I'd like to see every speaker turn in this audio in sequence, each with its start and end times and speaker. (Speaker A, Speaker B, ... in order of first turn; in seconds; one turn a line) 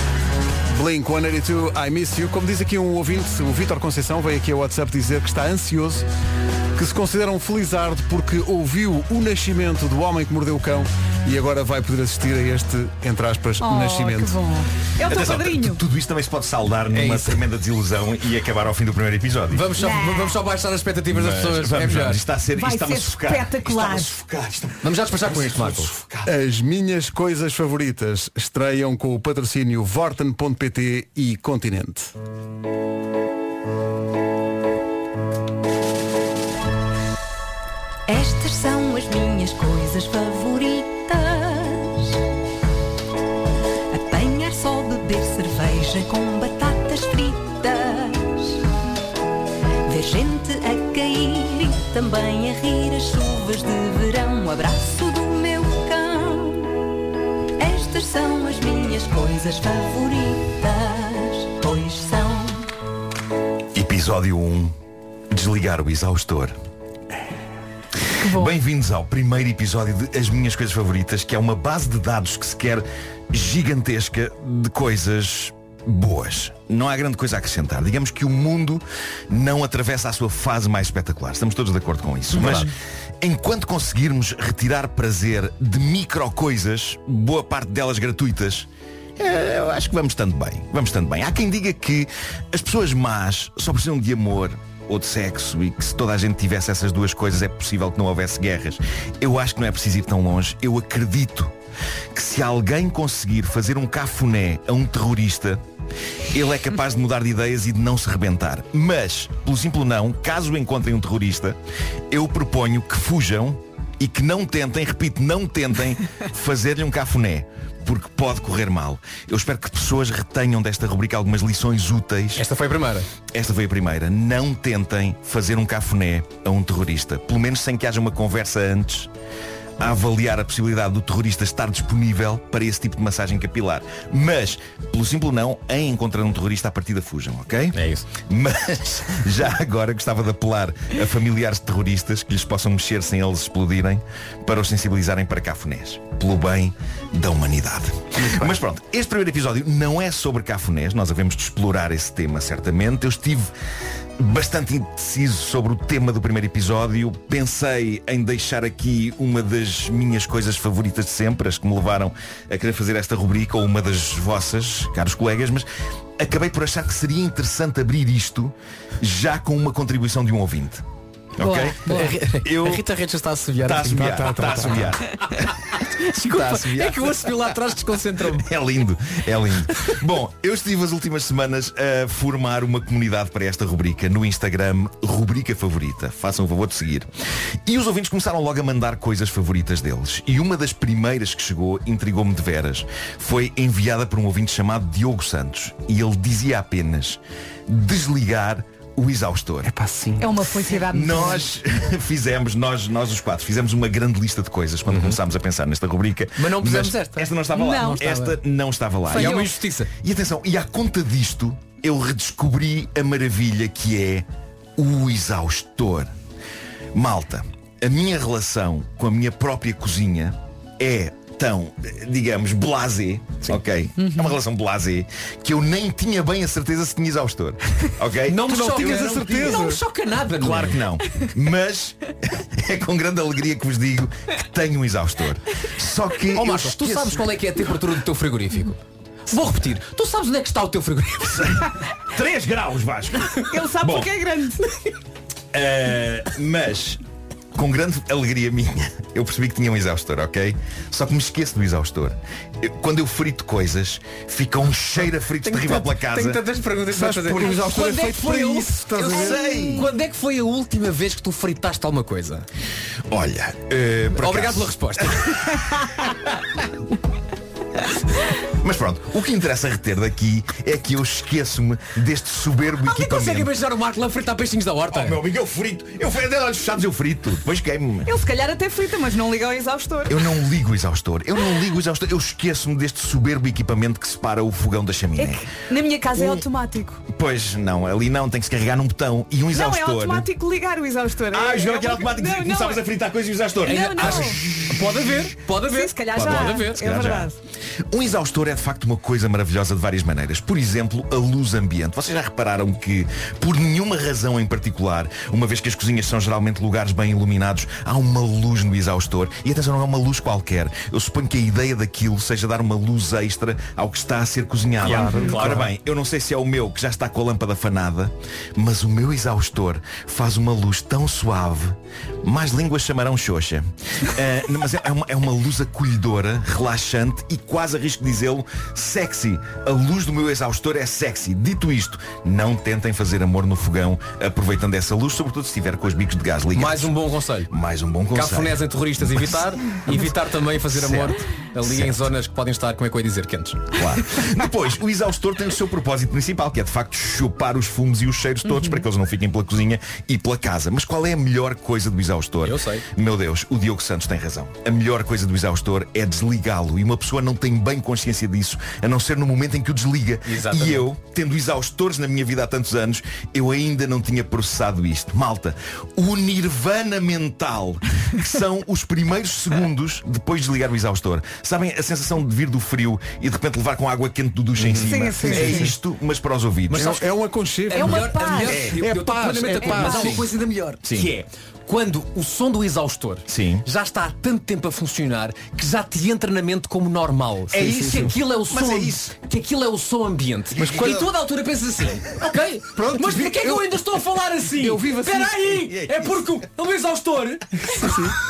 Speaker A: 0.7-6.0
Speaker A: 6.7-14.4
Speaker B: 13.6-15.8
Speaker C: 15.0-19.7
Speaker D: 16.9-17.4
Speaker D: 19.5-22.2
Speaker B: 19.8-20.3
Speaker C: 21.1-26.3
Speaker B: 22.5-24.2
Speaker D: 24.8-25.9
Speaker A: 26.2-32.1
Speaker E: 38.1-42.2
Speaker E: 43.9-48.6
Speaker E: 49.9-56.8
Speaker E: 57.6-62.7
Speaker C: 63.7-64.7
Speaker C: 65.3-66.5
Speaker B: 68.2-68.5
Speaker C: 68.2-101.5
Speaker D: 82.4-82.7
Speaker C: 102.1-105.6
Speaker C: 106.3-111.6
Speaker C: 112.1-122.5
Speaker D: 122.4-123.1
Speaker C: 123.3-129.1
Speaker C: 129.8-153.5
Speaker D: 137.7-138.1
Speaker C: 154.2-165.7
Speaker C: 166.2-170.8
Speaker C: 171.4-172.8
Speaker B: 171.4-172.1
Speaker D: 171.8-178.5
Speaker C: 173.6-175.6
Speaker A: 173.9-174.9
Speaker C: 176.1-177.1
Speaker C: 178.3-187.1
Speaker C: 187.6-199.7
Speaker A: 199.6-200.3
Speaker B: 200.2-201.5
Speaker C: 200.8-209.5
Speaker D: 204.9-205.2
Speaker D: 206.4-208.4
Speaker B: 207.5-208.1
Speaker D: 209.1-209.9
Speaker B: 209.1-209.5
Speaker C: 210.0-214.2
Speaker C: 214.8-216.1
Speaker C: 216.9-229.3
Speaker B: 224.0-224.3
Speaker D: 228.2-230.8
Speaker A: 228.4-229.8
Speaker C: 230.3-237.3
Speaker D: 236.3-241.7
Speaker C: 241.2-244.1
Speaker B: 243.4-244.7
Speaker C: 245.5-247.0
Speaker C: 247.5-256.4
Speaker D: 255.4-262.5
Speaker A: 256.9-259.7
Speaker C: 259.1-259.9
Speaker C: 263.1-265.9
Speaker D: 264.1-265.9
Speaker C: 268.4-273.5
Speaker D: 272.8-275.2
Speaker C: 274.9-278.1
Speaker B: 278.0-280.2
Speaker C: 280.1-285.4
Speaker B: 285.1-287.0
Speaker C: 286.1-286.4
Speaker C: 287.1-290.3
Speaker B: 289.5-292.8
Speaker C: 291.3-294.6
Speaker B: 293.6-294.4
Speaker D: 293.6-296.9
Speaker B: 295.6-297.4
Speaker C: 296.1-297.3
Speaker C: 297.9-336.9
Speaker D: 314.8-315.7
Speaker A: 314.8-315.6
Speaker D: 336.5-337.5
Speaker C: 337.5-339.9
Speaker D: 338.1-343.8
Speaker C: 340.7-342.0
Speaker C: 343.7-376.9
Speaker B: 348.5-348.8
Speaker D: 352.4-352.8
Speaker D: 360.2-360.9
Speaker D: 374.6-375.5
Speaker B: 374.8-375.7
Speaker A: 375.2-375.7
Speaker D: 376.7-377.1
Speaker A: 376.7-380.2
Speaker D: 377.7-398.0
Speaker B: 377.7-378.6
Speaker C: 378.5-378.8
Speaker C: 379.8-380.2
Speaker C: 380.8-381.1
Speaker C: 383.3-383.6
Speaker C: 387.5-389.1
Speaker A: 387.6-388.1
Speaker C: 390.6-391.1
Speaker A: 392.7-393.8
Speaker A: 394.5-395.5
Speaker C: 395.7-396.1
Speaker A: 397.8-398.1